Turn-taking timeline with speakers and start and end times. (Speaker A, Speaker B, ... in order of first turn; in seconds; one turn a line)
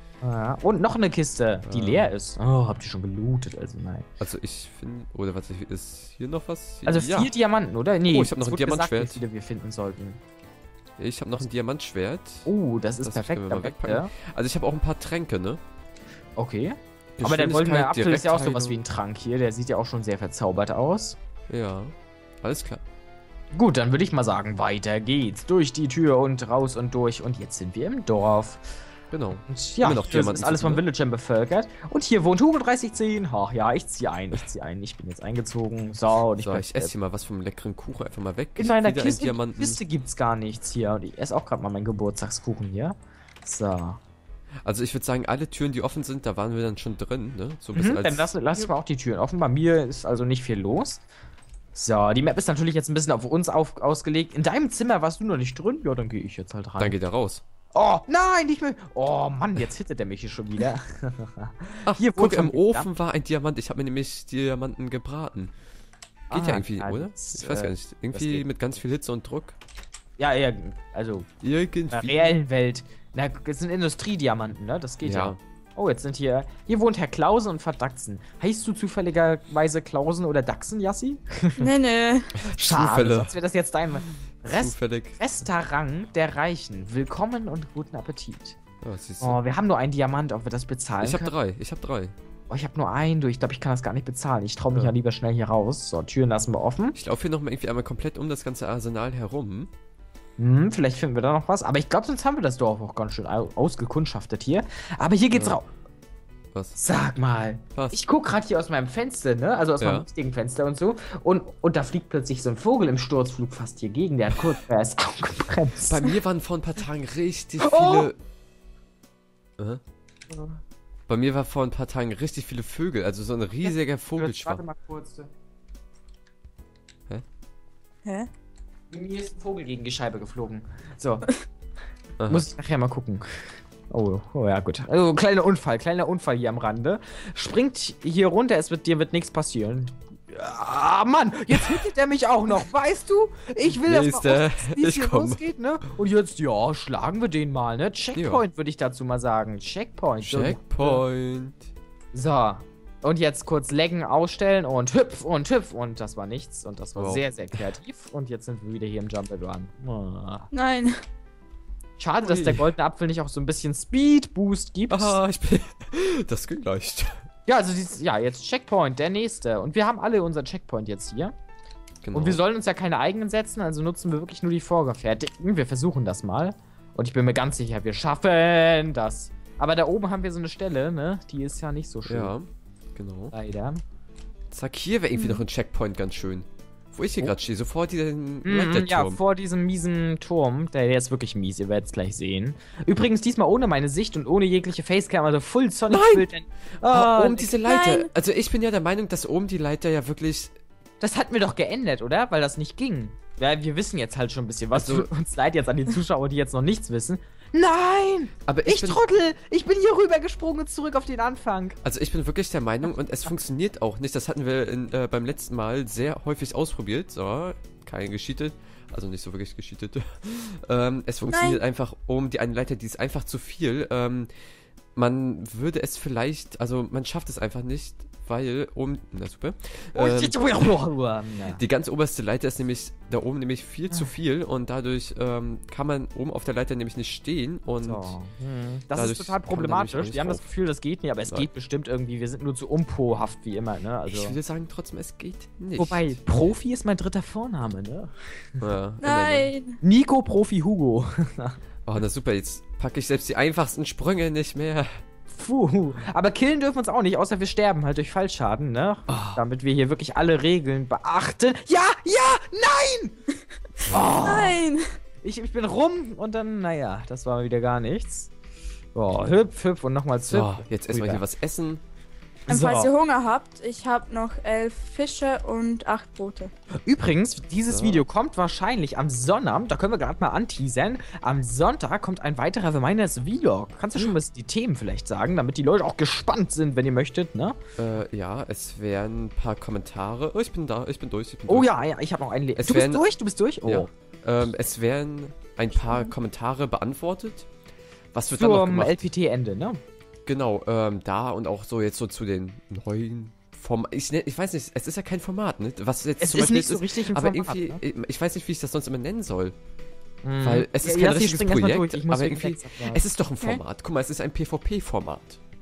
Speaker A: 0.2-4.1
Speaker B: 1.6-2.1
Speaker B: 4.2-7.3
Speaker A: 6.9-10.2
Speaker B: 8.1-9.2
Speaker B: 11.0-12.5
Speaker A: 12.4-14.1
Speaker B: 13.0-15.6
Speaker A: 16.4-21.2
Speaker B: 17.2-18.8
Speaker B: 21.5-22.8
Speaker A: 23.5-28.6
Speaker B: 29.1-30.8
Speaker A: 29.5-36.9
Speaker B: 36.4-39.8
Speaker A: 38.6-44.0
Speaker B: 44.6-48.3
Speaker A: 47.7-51.1
Speaker A: 51.8-57.0
Speaker B: 56.8-57.4
Speaker A: 57.7-62.9
Speaker B: 61.9-65.5
Speaker A: 66.3-68.5
Speaker B: 66.3-69.6
Speaker A: 70.2-71.3
Speaker B: 71.4-72.3
Speaker A: 71.9-81.7
Speaker B: 75.0-75.4
Speaker C: 81.6-82.3
Speaker A: 82.4-88.6
Speaker B: 82.4-83.3
Speaker B: 84.5-85.2
Speaker B: 88.8-89.4
Speaker A: 89.2-91.3
Speaker B: 91.0-92.2
Speaker A: 92.5-97.0
Speaker B: 97.0-99.7
Speaker A: 100.4-105.6
Speaker B: 105.3-105.6
Speaker A: 106.8-116.2
Speaker B: 109.8-110.1
Speaker B: 115.8-118.2
Speaker A: 117.6-118.1
Speaker A: 120.3-120.6
Speaker B: 121.1-124.6
Speaker A: 124.2-125.3
Speaker A: 128.9-131.3
Speaker B: 132.2-132.4
Speaker A: 132.3-151.0
Speaker B: 141.5-141.8
Speaker B: 143.8-145.4
Speaker B: 148.2-148.4
Speaker B: 150.2-151.7
Speaker A: 152.1-160.5
Speaker B: 157.0-157.6
Speaker C: 160.5-161.0
Speaker A: 162.0-165.2
Speaker B: 162.2-162.7
Speaker B: 164.9-167.2
Speaker A: 167.5-171.3
Speaker B: 172.0-172.4
Speaker A: 172.1-182.3
Speaker B: 182.1-183.3
Speaker A: 183.3-183.8
Speaker B: 184.5-189.2
Speaker C: 185.1-185.4
Speaker A: 188.4-197.5
Speaker B: 195.9-196.3
Speaker B: 196.9-200.6
Speaker C: 197.7-198.1
Speaker A: 201.0-211.8
Speaker B: 204.7-205.1
Speaker B: 208.5-209.0
Speaker B: 211.8-224.3
Speaker C: 221.3-221.6
Speaker B: 224.9-230.4
Speaker A: 229.9-231.6
Speaker B: 231.5-238.2
Speaker A: 237.8-244.4
Speaker B: 238.9-240.5
Speaker B: 244.1-246.2
Speaker A: 245.8-248.6
Speaker B: 248.6-249.5
Speaker C: 249.0-249.8
Speaker A: 249.8-251.6
Speaker B: 251.9-255.0
Speaker A: 255.3-263.2
Speaker B: 259.1-259.4
Speaker B: 263.9-264.1
Speaker A: 263.9-264.6
Speaker C: 264.2-265.0
Speaker A: 265.2-268.3
Speaker A: 268.9-271.2
Speaker B: 270.3-271.8
Speaker A: 272.5-272.9
Speaker C: 272.5-276.5
Speaker A: 276.9-287.6
Speaker B: 277.7-278.0
Speaker B: 287.8-291.7
Speaker A: 291.5-293.9
Speaker B: 292.6-293.1
Speaker B: 293.6-297.5
Speaker B: 298.1-299.0
Speaker A: 298.4-299.8
Speaker B: 300.3-309.6
Speaker A: 306.2-307.8
Speaker A: 310.2-313.0
Speaker B: 310.4-315.4